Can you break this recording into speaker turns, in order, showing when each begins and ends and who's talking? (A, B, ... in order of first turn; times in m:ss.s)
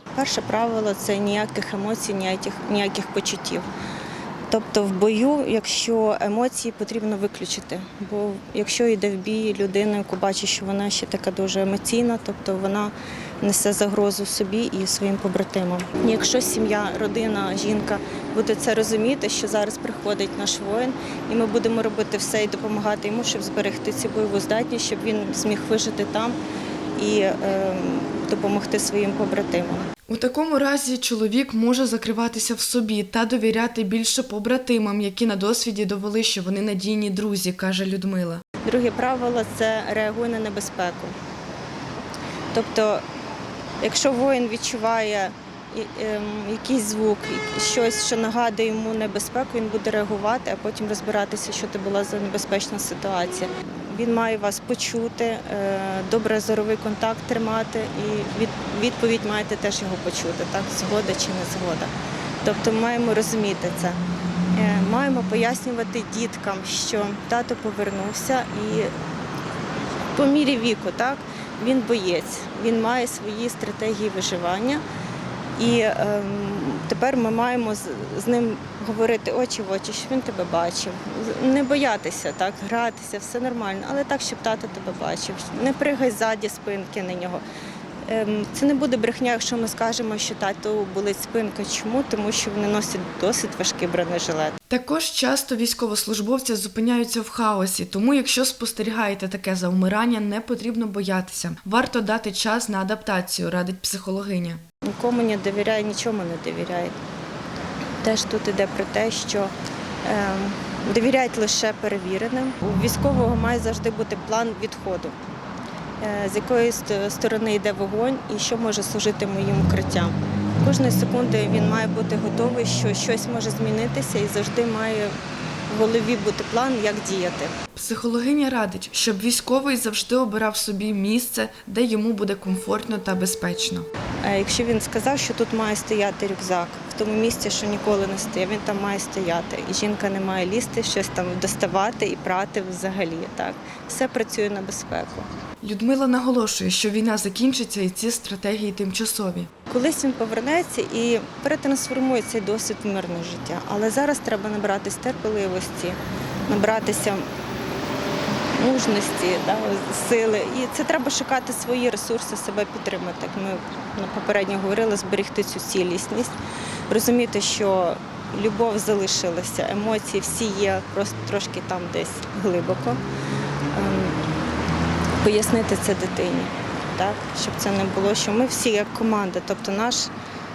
0:00.1-0:03.7 A
0:04.5-0:26.4 A
0:27.0-0:29.9 A
0:30.1-0:38.4 B
0:38.6-0:41.1 A
0:42.5-0:43.0 A
0:43.8-1:01.9 A
1:02.4-1:04.0 A
1:04.5-1:08.9 A
1:10.1-1:14.8 A
1:15.6-1:27.4 A
1:28.0-1:34.6 A
1:34.7-1:44.6 B
1:44.8-1:47.0 A
1:48.0-1:55.2 A
1:56.0-2:05.1 A
2:05.7-2:07.5 A
2:07.7-2:13.9 B
2:14.2-2:25.3 A
2:25.6-2:29.5 B
2:29.7-2:37.3 A
2:38.6-2:46.3 A
2:46.9-2:53.0 A
2:53.7-2:54.2 A
2:55.2-3:00.1 A